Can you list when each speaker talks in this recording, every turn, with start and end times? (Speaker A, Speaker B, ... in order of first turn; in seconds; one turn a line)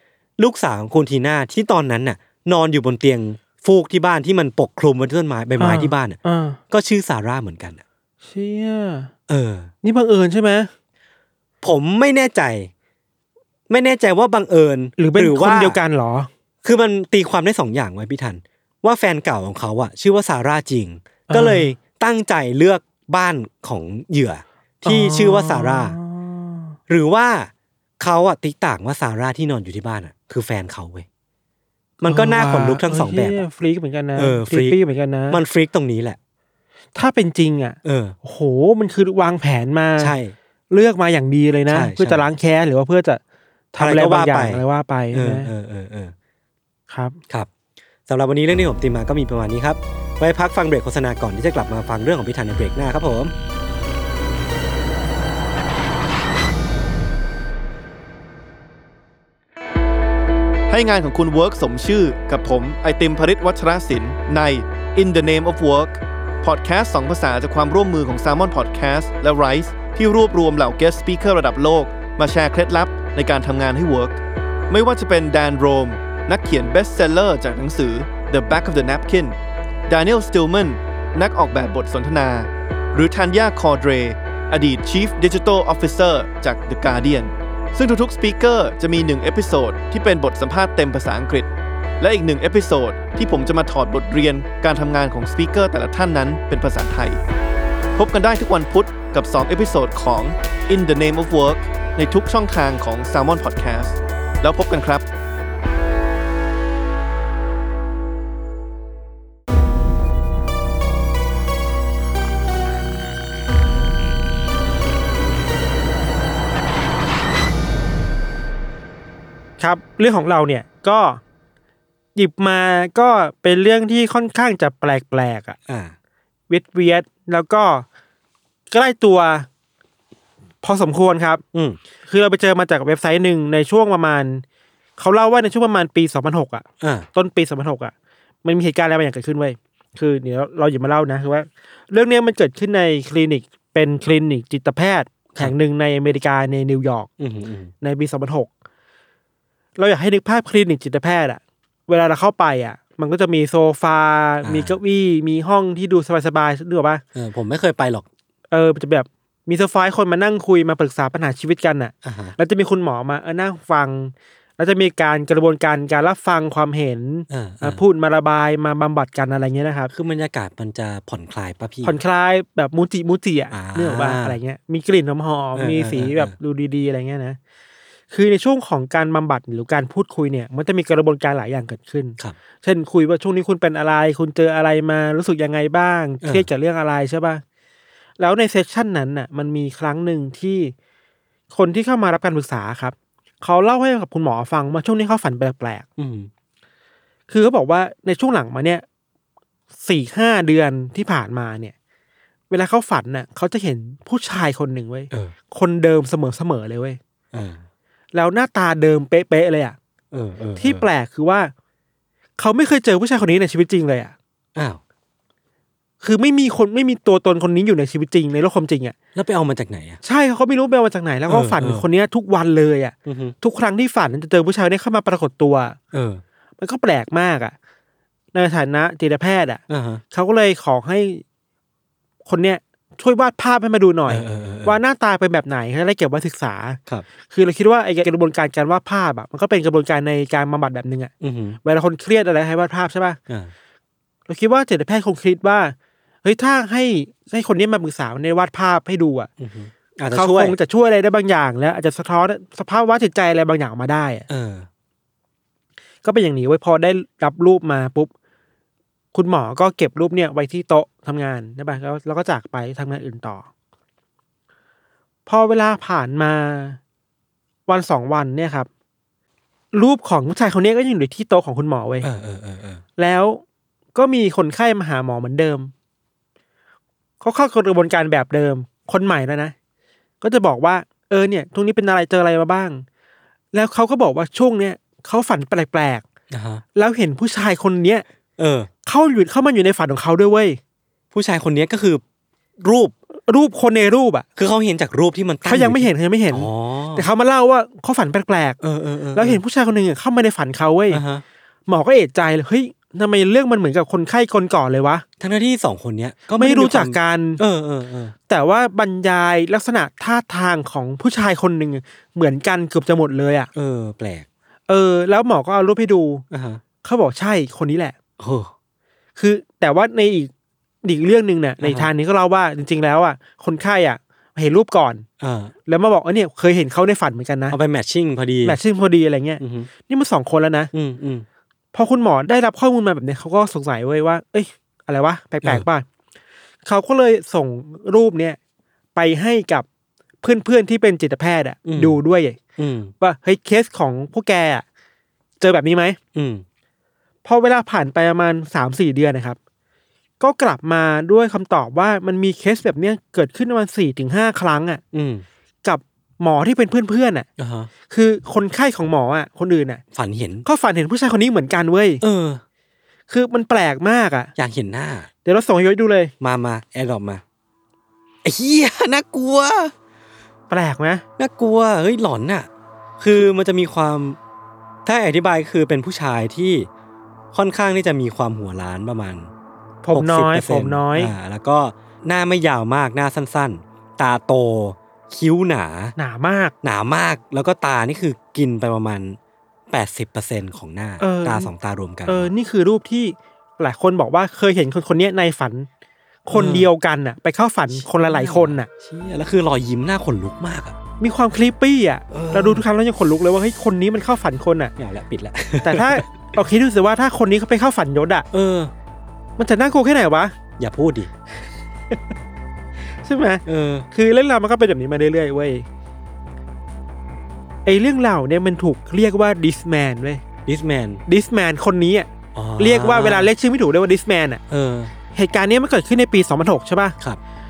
Speaker A: 0.4-6.2
Speaker B: 5.6-6.6
Speaker A: 6.7-7.8
Speaker B: 8.2-9.1
Speaker A: 9.3-9.7
Speaker B: 9.8-10.7
Speaker A: 11.6-12.7
Speaker A: 13.7-15.8
Speaker B: 15.0-16.3
Speaker A: 16.6-25.9
Speaker B: 21.3-21.7
Speaker B: 24.8-26.7
Speaker A: 26.9-31.1
Speaker A: 32.0-33.4
Speaker B: 32.0-35.4
Speaker A: 34.1-34.8
Speaker A: 35.3-36.2
Speaker B: 36.9-40.1
Speaker A: 37.8-38.1
Speaker A: 40.0-40.3
Speaker B: 40.7-43.2
Speaker A: 41.7-42.2
Speaker B: 43.7-45.5
Speaker A: 43.8-46.1
Speaker B: 46.9-47.2
Speaker A: 48.1-53.3
Speaker C: 60.7-79.4
Speaker C: 79.9-91.5
Speaker C: 92.0-97.2
Speaker C: 98.0-105.1
Speaker B: 119.6-121.2
Speaker B: 122.1-125.6
Speaker A: 125.7-125.9
Speaker B: 126.5-127.8
Speaker B: 128.7-129.5
Speaker B: 130.6-131.4
Speaker A: 131.5-131.8
Speaker B: 132.1-134.4
Speaker B: 135.0-137.9
Speaker A: 136.8-137.1
Speaker B: 138.4-147.1
Speaker A: 147.2-147.7
Speaker B: 147.8-148.5
Speaker B: 149.8-157.0
Speaker A: 154.4-154.8
Speaker A: 157.1-158.1
Speaker B: 158.5-169.9
Speaker A: 162.0-162.3
Speaker A: 167.3-167.8
Speaker A: 169.9-172.0
Speaker B: 171.8-177.4
Speaker A: 173.5-174.4
Speaker A: 175.5-176.3
Speaker B: 178.1-187.4
Speaker A: 186.2-186.5
Speaker B: 188.2-190.7
Speaker B: 191.5-195.8
Speaker A: 196.0-196.3
Speaker B: 197.3-198.8
Speaker B: 199.8-201.7
Speaker B: 202.5-207.0
Speaker A: 207.3-207.6
Speaker B: 208.1-209.8
Speaker A: 210.1-210.8
Speaker B: 210.6-211.5
Speaker B: 212.4-214.1
Speaker A: 214.5-214.8
Speaker B: 216.0-218.9
Speaker A: 219.1-220.0
Speaker B: 220.0-225.8
Speaker A: 221.3-221.8
Speaker A: 223.0-223.3
Speaker A: 225.9-226.2
Speaker B: 226.6-227.5
Speaker B: 228.3-229.6
Speaker A: 229.7-230.0
Speaker B: 230.1-231.2
Speaker B: 232.2-241.1
Speaker A: 234.1-234.8
Speaker A: 241.2-241.6
Speaker B: 241.6-243.2
Speaker B: 244.3-249.3
Speaker A: 249.4-250.6
Speaker B: 250.1-254.2
Speaker A: 254.3-254.7
Speaker B: 256.0-258.1
Speaker B: 259.1-263.4
Speaker B: 265.2-266.8
Speaker B: 267.7-268.7
Speaker B: 269.7-272.1
Speaker A: 272.0-272.8
Speaker B: 273.0-273.4
Speaker B: 273.9-275.7
Speaker B: 277.2-279.5
Speaker B: 280.2-282.8
Speaker B: 283.5-286.0
Speaker A: 286.3-286.6
Speaker B: 286.7-288.0
Speaker A: 288.4-288.7
Speaker B: 288.9-290.6
Speaker A: 291.1-292.0
Speaker A: 292.6-292.9
Speaker B: 293.3-294.2
Speaker A: 294.4-297.1
Speaker B: 295.4-298.6
Speaker A: 298.6-299.4
Speaker B: 299.1-301.0
Speaker A: 300.9-301.2
Speaker B: 301.7-305.0
Speaker A: 305.2-308.1
Speaker B: 306.4-307.4
Speaker B: 308.3-313.5
Speaker A: 313.5-314.2
Speaker B: 314.7-316.2
Speaker A: 316.3-316.6
Speaker B: 316.8-317.9
Speaker A: 318.2-318.5
Speaker B: 319.2-320.3
Speaker B: 320.8-325.0
Speaker A: 321.6-321.9
Speaker A: 325.2-325.5
Speaker B: 325.7-327.6
Speaker A: 327.5-328.6
Speaker B: 328.4-330.7
Speaker A: 329.4-329.7
Speaker A: 330.7-331.2
Speaker B: 331.7-335.8
Speaker B: 336.6-338.4
Speaker B: 338.9-339.6
Speaker B: 340.2-342.4
Speaker A: 341.6-342.0
Speaker A: 342.6-342.9
Speaker B: 343.0-344.6
Speaker B: 345.4-346.0
Speaker A: 346.1-346.4
Speaker B: 347.2-349.4
Speaker B: 350.2-354.8
Speaker A: 354.9-355.2
Speaker B: 355.6-357.3
Speaker A: 357.4-357.7
Speaker B: 357.9-359.8
Speaker A: 359.9-360.4
Speaker B: 360.4-362.0
Speaker A: 362.0-362.4
Speaker B: 363.1-364.3
Speaker A: 364.4-365.1
Speaker B: 365.2-366.1
Speaker A: 366.2-367.2
Speaker A: 368.2-369.7
Speaker B: 370.5-371.0
Speaker A: 371.2-372.5
Speaker A: 373.0-374.2
Speaker A: 374.8-376.7
Speaker A: 377.3-379.3
Speaker B: 379.8-381.1
Speaker A: 379.9-385.9
Speaker B: 386.0-386.5
Speaker A: 386.6-389.2
Speaker A: 389.7-392.3
Speaker B: 391.0-391.5
Speaker B: 392.1-395.7
Speaker B: 396.2-398.7
Speaker A: 396.3-396.7
Speaker A: 397.7-400.8
Speaker B: 401.0-404.7
Speaker A: 402.1-402.6
Speaker A: 404.8-406.3
Speaker B: 405.6-408.2
Speaker A: 408.3-408.7
Speaker B: 409.4-410.3
Speaker A: 410.6-411.1
Speaker B: 413.0-415.6
Speaker A: 413.4-413.9
Speaker B: 417.6-420.2
Speaker A: 420.4-421.0
Speaker B: 421.1-424.4
Speaker A: 422.3-423.3
Speaker A: 424.5-424.9
Speaker B: 425.1-426.9